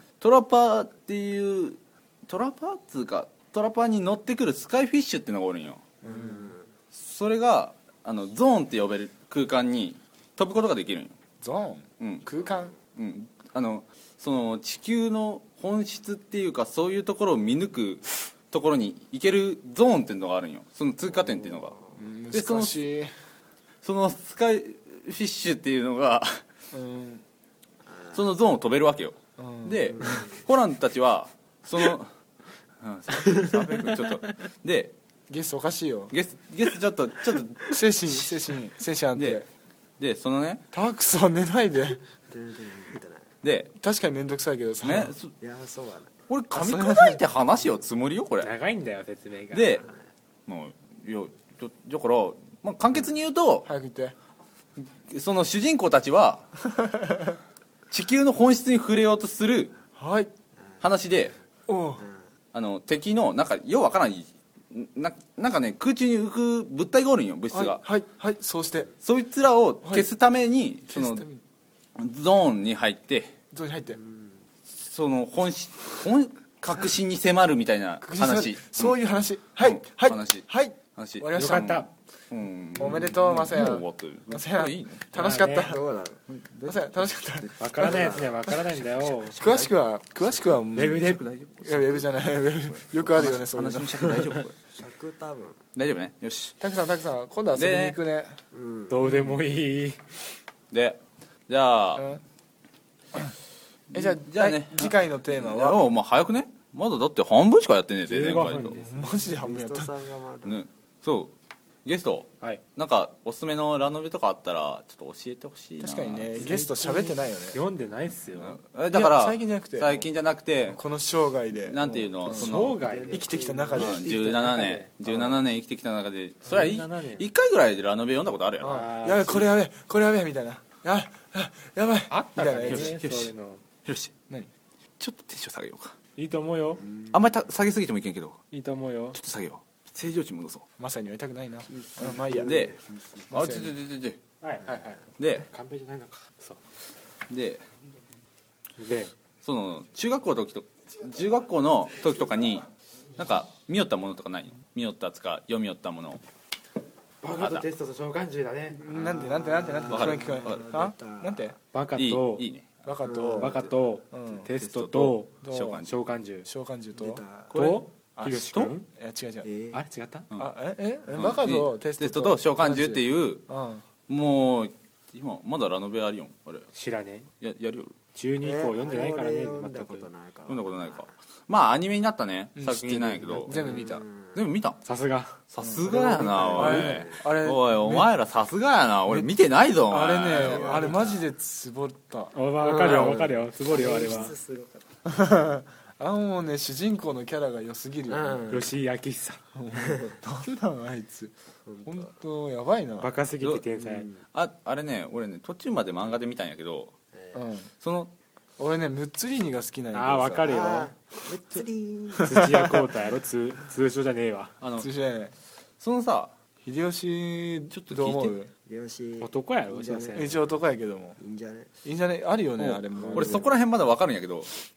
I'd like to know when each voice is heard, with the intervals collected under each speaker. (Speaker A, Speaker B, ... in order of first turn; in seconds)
Speaker A: 0.2-5.8, 6.9-11.2, 12.0-12.3, 12.9-21.8, 22.3-22.8, 23.8-26.4, 28.1-32.1, 32.8-34.9, 36.1-38.3, 39.1-39.4, 40.0-40.6, 43.4-43.7, 44.8-45.3, 46.3-48.5, 49.5-49.8, 50.5-53.7, 54.8-56.5, 57.9-59.8, 60.8-61.4, 62.5-67.8, 69.0-71.3, 72.0-73.3, 74.7-79.0, 79.6-85.1, 91.2-91.7, 93.0-94.5, 95.8-96.6, 97.5-98.0, 100.7-102.1, 103.9-108.8, 110.5-111.3, 111.8-116.5, 118.4-120.8, 121.6-122.8, 123.7-128.9, 132.6-133.3, 133.8-134.1, 135.0-136.0, 137.1-138.4, 139.1-140.7, 142.4-142.8, 143.3-144.2, 145.2-145.5, 147.3-147.6, 149.4-156.2, 157.3-157.7, 159.9-160.6, 162.0-162.7, 164.5-165.9, 167.5-167.9, 171.2-173.5, 174.1-176.7, 177.4-177.9, 180.5-183.6, 184.3-184.8, 185.5-191.0, 203.4-203.7, 204.3-206.9, 207.8-208.1, 214.6-214.9, 215.8-216.3, 217.7-218.4, 222.6-224.5
Speaker B: 6.0-6.5, 11.4-12.7, 21.9-23.1, 26.7-27.2, 29.4-30.2, 35.3-36.1, 37.6-39.5, 40.7-42.0, 43.8-45.1, 46.5-47.2, 53.6-54.1, 56.6-57.4, 60.0-60.3, 61.7-62.0, 67.5-68.9, 69.8-70.1, 70.9-71.4, 73.5-74.0, 78.0-81.8, 82.8-85.8, 86.5-88.3, 89.3-94.2, 96.6-98.4, 102.0-102.2, 103.9-105.8, 108.7-109.9, 115.8-117.6, 118.9-120.1, 120.7-122.6, 123.1-124.5, 128.6-133.0, 140.8-142.7, 143.3-143.7, 158.8-161.6, 162.8-164.5, 165.4-165.8, 166.4-167.2, 168.2-169.5, 170.4-173.8, 182.6-184.0, 185.6-188.1, 189.9-192.3, 195.1-198.5, 199.6-201.3, 201.8-203.1, 207.3-207.7, 208.6-210.6, 212.2-212.8, 214.8-215.3, 216.6-218.5, 220.2-221.2, 221.8-223.5
Speaker C: 6.0-6.7, 21.1-22.0, 27.9-28.2, 29.9-30.4, 42.3-43.3, 45.4-46.1, 62.0-62.2, 74.0-74.3, 85.6-86.2, 87.8-88.3, 94.7-95.6, 98.5-99.2, 109.3-110.6, 122.7-124.1, 136.8-137.2, 141.7-143.3, 144.6-144.9, 158.8-161.5, 163.0-163.7, 167.0-167.5, 169.4-169.8, 178.4-181.1, 183.5-184.4, 185.8-187.2, 190.3-191.2, 192.6-195.0, 198.1-198.7, 199.8-200.2, 201.7-202.1, 203.7-204.2, 207.2-207.4, 210.5-212.7, 218.7-220.5, 221.2-221.7, 223.0-223.5
Speaker D: 48.4-49.9, 81.3-81.9, 85.1-85.7, 87.6-89.5, 90.7-91.3, 98.9-100.2, 108.1-109.2, 116.3-118.6, 122.3-124.9, 126.5-127.3, 128.6-129.5, 132.1-133.6, 136.2-136.8, 138.5-139.2, 144.4-146.6, 148.8-149.1, 157.2-158.8, 161.7-162.5, 163.3-166.5, 167.5-168.9, 169.7-170.3, 176.7-177.3, 178.2-180.1, 184.8-185.4, 192.3-194.4, 198.5-199.4, 203.0-204.1, 209.9-210.9, 212.2-214.5, 219.2-220.3